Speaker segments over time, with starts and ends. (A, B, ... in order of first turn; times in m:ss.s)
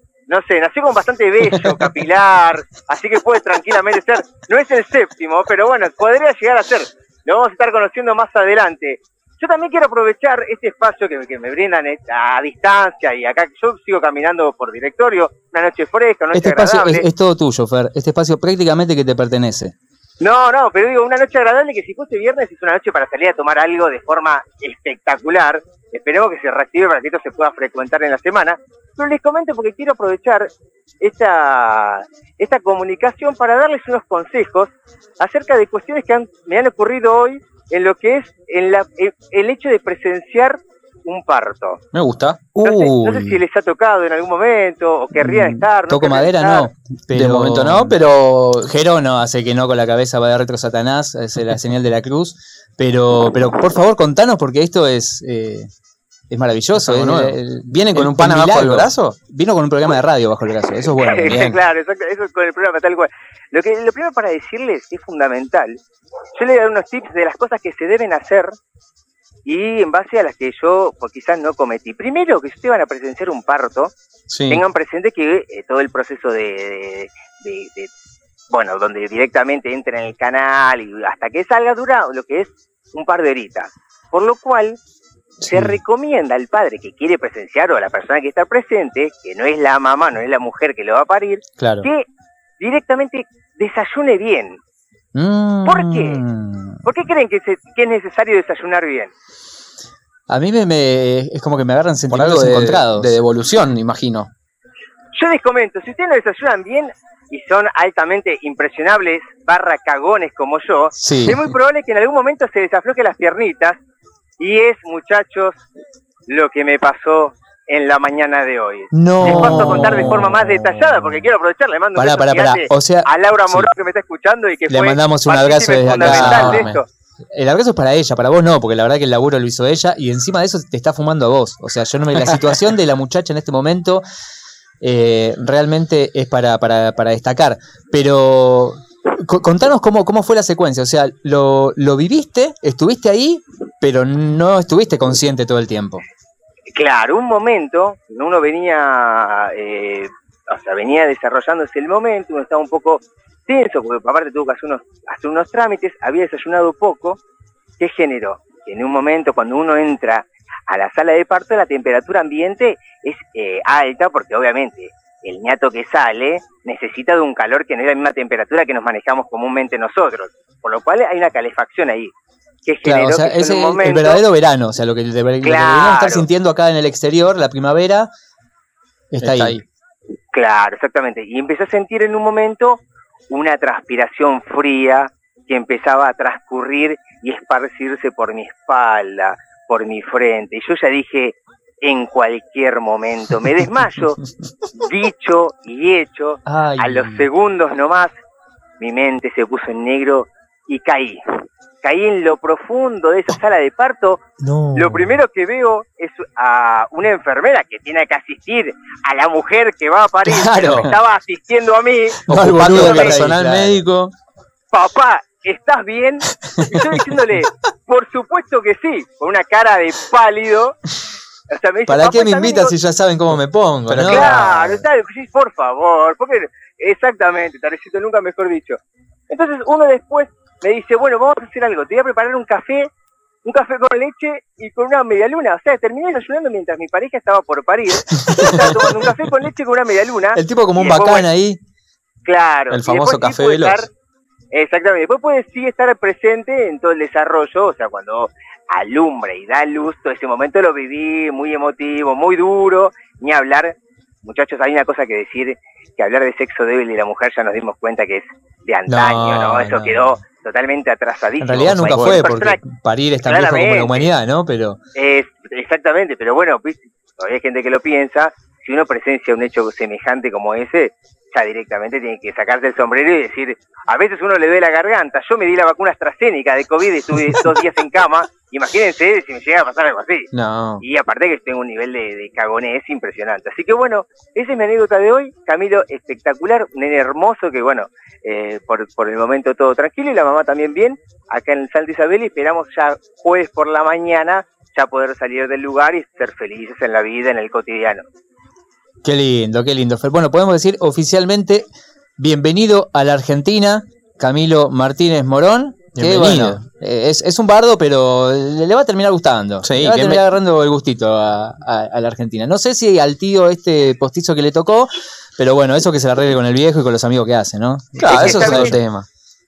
0:00.3-0:17.0 A
0:16.3-0:19.7 B
0:20.2-0:30.5 A
0:31.0-0:41.8 A
0:41.9-0:42.6 C
0:42.6-0:43.3 B
0:42.6-0:46.7 A
0:45.2-0:48.0 B
0:47.1-0:48.7 C
0:48.6-0:55.7 B
0:56.3-1:01.4 B
0:56.8-0:59.1 C
1:01.0-1:05.8 A
1:01.3-1:01.6 C
1:06.3-1:08.5 A
1:09.4-1:13.9 A
1:14.3-1:14.6 C
1:14.5-1:17.9 A
1:18.5-1:24.8 A
1:25.4-1:32.0 A
1:25.5-1:25.8 B
1:31.6-1:31.9 B
1:32.6-1:34.6 A
1:35.1-1:36.8 B
1:35.6-1:36.2 A
1:36.8-1:39.1 A
1:40.3-1:43.1 B
1:42.1-1:44.3 C
1:45.1-1:53.8 A
1:51.0-1:51.4 B
1:54.4-1:55.6 A
1:56.3-2:06.8 A
1:58.9-2:01.2 B
1:59.2-1:59.9 C
2:02.0-2:03.7 B
2:04.7-2:06.7 B
2:05.9-2:06.8 C
2:07.3-2:14.0 B
2:14.8-2:26.0 B
2:26.7-2:37.2 A
2:37.8-2:52.1 A
2:52.6-2:54.2 A
2:52.8-2:58.1 B
2:55.4-2:56.3 A
2:59.1-2:59.6 B
2:59.2-2:59.6 C
3:00.3-3:14.2 A
3:14.8-3:18.1 A
3:16.4-3:17.3 B
3:18.8-3:24.2 A
3:24.4-3:25.1 B
3:24.7-3:33.2 A
3:30.2-3:30.9 B
3:32.3-3:34.1 C
3:32.3-3:33.8 B
3:34.7-3:40.8 A
3:41.5-3:42.8 A
3:41.9-3:44.3 B
3:43.9-3:44.5 C
3:44.0-3:52.9 A
3:53.4-4:01.2 A
3:58.3-3:58.7 B
4:00.3-4:01.6 B
4:02.2-4:03.9 A
4:02.7-4:03.9 C
4:04.5-4:22.6 A
4:18.9-4:20.2 B
4:21.4-4:24.8 B
4:21.8-4:22.2 C
4:23.2-4:24.1 A
4:24.9-4:58.0 A
4:40.3-4:40.8 C
4:59.0-5:01.6 B
5:02.2-5:18.8 B
5:06.0-5:06.6 C
5:09.6-5:10.2 C
5:18.0-5:19.0 C
5:18.0-5:18.8 A